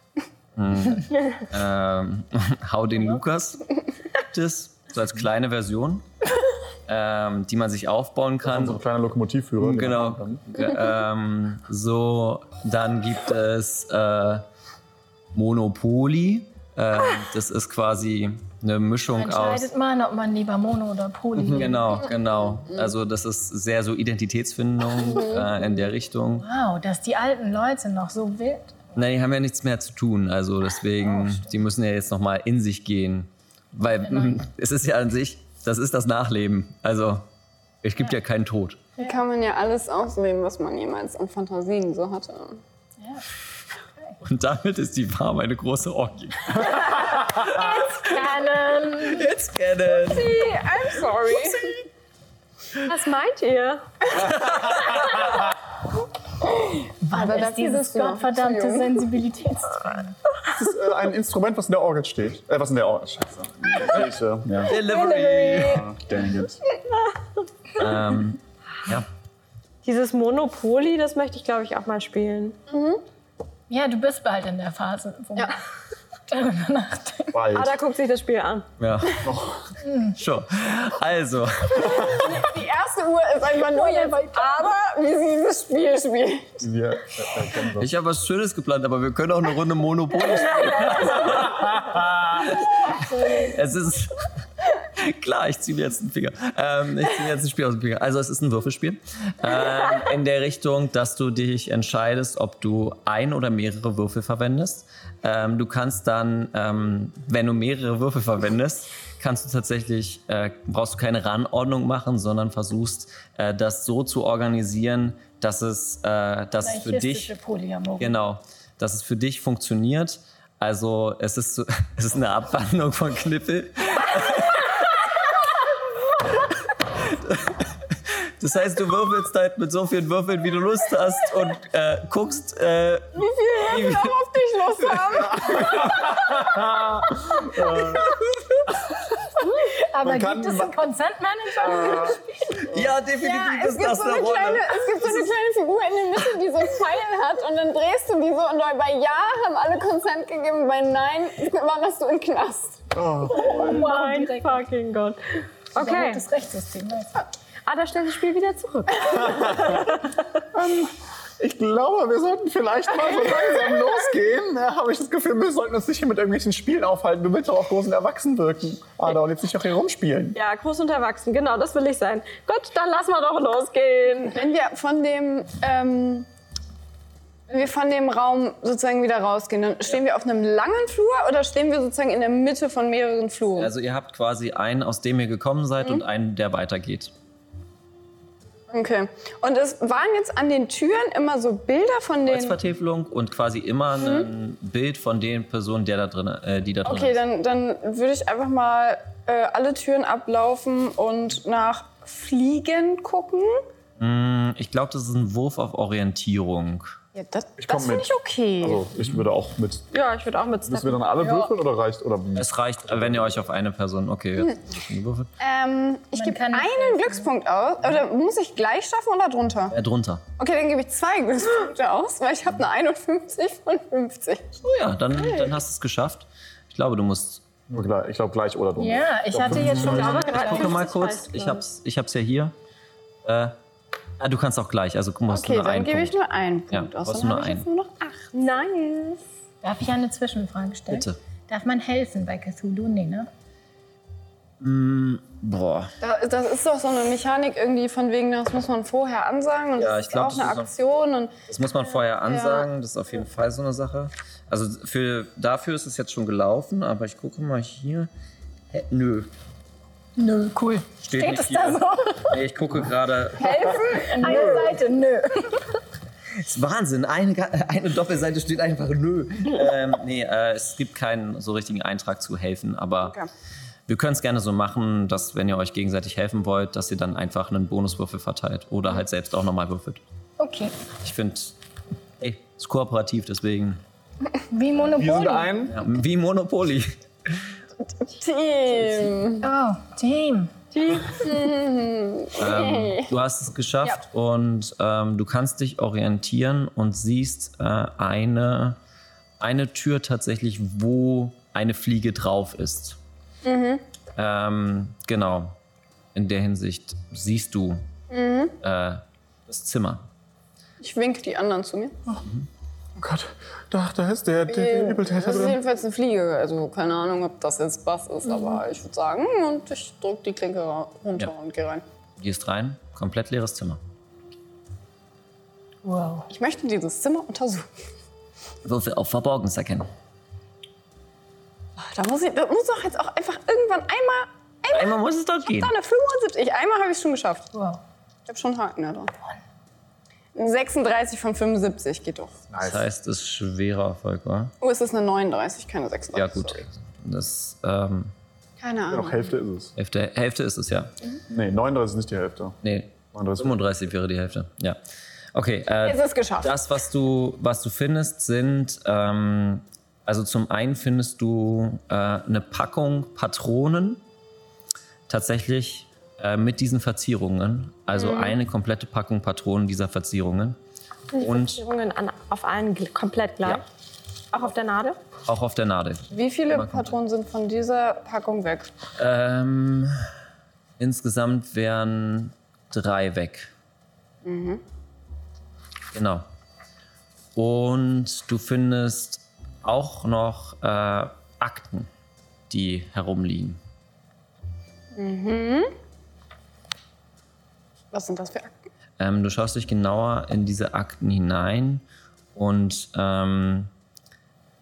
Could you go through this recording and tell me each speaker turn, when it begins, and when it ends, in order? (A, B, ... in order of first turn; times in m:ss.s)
0:00.6-0:03.6 A
0:04.1-0:06.0 A
0:06.9-0:08.8 A
0:08.4-0:10.4 B
0:09.6-0:14.4 A
0:15.3-0:19.7 A
0:19.1-0:22.0 C
0:21.4-0:26.4 A
0:25.0-0:25.6 D
0:26.4-0:28.8 C
0:28.9-0:37.2 A
0:34.1-0:34.4 C
0:37.8-0:38.8 A
0:39.0-0:42.6 D
0:43.0-0:43.2 C
0:44.2-0:48.1 A
0:47.4-0:49.3 C
0:49.0-0:50.6 A
0:50.0-0:51.8 D
0:52.8-0:53.8 E
0:54.2-0:55.4 A
0:56.7-1:00.2 C
0:57.1-0:59.0 D
1:00.5-1:04.8 B
1:04.6-1:05.9 A
1:04.9-1:05.7 D
1:05.6-1:06.6 B
1:07.7-1:09.1 A
1:09.8-1:12.6 E
1:12.7-1:13.0 D
1:13.7-1:15.6 C
1:16.3-1:17.4 C
1:17.3-1:17.8 B
1:17.5-1:18.7 E
1:18.8-1:19.3 A
1:19.2-1:19.7 B
1:19.8-1:20.2 C
1:20.1-1:22.3 A
1:21.9-1:26.7 D
1:23.7-1:24.7 C
1:26.6-1:27.9 B
1:27.8-1:57.3 A
1:31.4-1:32.2 B
1:32.9-1:33.5 C
1:56.6-1:58.2 C
1:58.0-2:05.3 A
2:06.8-2:14.1 A
2:13.2-2:16.1 D
2:15.1-2:15.8 A
2:15.5-2:18.1 B
2:19.6-2:22.2 C
2:20.0-2:20.8 B
2:21.6-2:22.2 B
2:22.6-2:25.1 A
2:23.2-2:32.9 D
2:32.9-2:33.9 B
2:33.3-2:34.6 C
2:33.3-2:36.2 E
2:35.8-2:37.2 C
2:37.6-2:39.9 E
2:39.1-2:40.0 B
2:40.5-2:50.4 B
2:50.4-2:54.4 E
2:54.3-2:56.3 D
2:57.5-3:03.7 D
3:03.6-3:07.1 A
3:08.7-3:12.6 D
3:12.2-3:17.2 A
3:14.0-3:14.3 D
3:16.8-3:23.6 D
3:24.0-3:27.0 A
3:27.1-3:28.0 D
3:27.6-3:29.8 B
3:27.8-3:28.9 E
3:29.9-3:31.0 E
3:30.6-3:33.4 B
3:32.4-3:35.3 A
3:35.4-3:39.7 D
3:36.1-3:37.3 C
3:39.7-3:40.2 A
3:40.4-3:44.4 D
3:44.6-3:47.4 A
3:45.1-3:45.6 D
3:47.7-3:50.3 B
3:48.8-3:50.9 C
3:49.6-3:52.5 A
3:49.7-3:51.6 E
3:53.2-3:53.5 A
3:54.2-3:56.2 A
3:55.3-3:58.3 D
3:56.7-3:57.6 A
3:58.3-3:59.2 E
3:59.6-4:03.3 C
4:00.9-4:01.2 A
4:04.6-4:05.9 A
4:06.0-4:11.4 D
4:09.8-4:10.7 A
4:11.5-4:18.1 A
4:12.2-4:12.7 D
4:18.7-4:19.3 A
4:20.2-4:22.4 C
4:21.0-4:24.4 A
4:23.4-4:25.7 C
4:23.5-4:24.1 D
4:24.2-4:24.7 B
4:26.4-4:33.2 A
4:33.9-4:40.0 A
4:40.4-4:40.7 C
4:41.0-4:41.6 A
4:42.2-4:43.8 A
4:44.5-4:45.7 C
4:44.9-4:45.8 B
4:45.7-4:46.9 A
4:47.8-4:49.4 D
4:49.4-4:50.5 C
4:50.7-4:51.2 E
4:51.1-4:53.1 D
4:52.4-4:58.8 A
4:59.4-5:03.0 A
5:03.4-5:03.8 D
5:04.2-5:05.6 A
5:06.1-5:07.8 A
5:08.1-5:08.6 D
5:08.6-5:10.0 A
5:10.8-5:12.0 D
5:13.0-5:15.6 B
5:14.5-5:21.8 D
5:22.2-5:23.8 A
5:25.8-5:26.3 C
5:26.3-5:27.7 D
5:28.6-5:29.9 A
5:31.8-5:37.5 D
5:34.7-5:35.7 A
5:37.5-5:37.8 C
5:38.3-5:39.1 D
5:40.4-5:42.6 D
5:42.5-5:42.9 B
5:42.6-5:44.5 A
5:44.6-5:46.6 D
5:46.1-5:48.1 A
5:48.6-5:49.3 D
5:48.9-5:49.7 B
5:49.8-5:50.9 A
5:51.3-5:52.6 B
5:52.6-5:54.8 A
5:53.1-5:53.6 B
5:55.3-6:04.0 A
5:55.8-5:56.6 D
6:05.1-6:10.6 A
6:08.0-6:08.4 D
6:11.1-6:13.6 E
6:11.2-6:11.6 A
6:14.3-6:15.0 E
6:15.2-6:17.0 A
6:16.1-6:18.7 D
6:19.0-6:20.0 A
6:20.8-6:23.5 A
6:24.2-6:24.6 D
6:25.9-6:26.2 A
6:27.4-6:31.9 A
6:32.5-6:33.6 A
6:34.9-6:35.7 D
6:37.9-6:38.6 D
6:39.0-6:43.7 A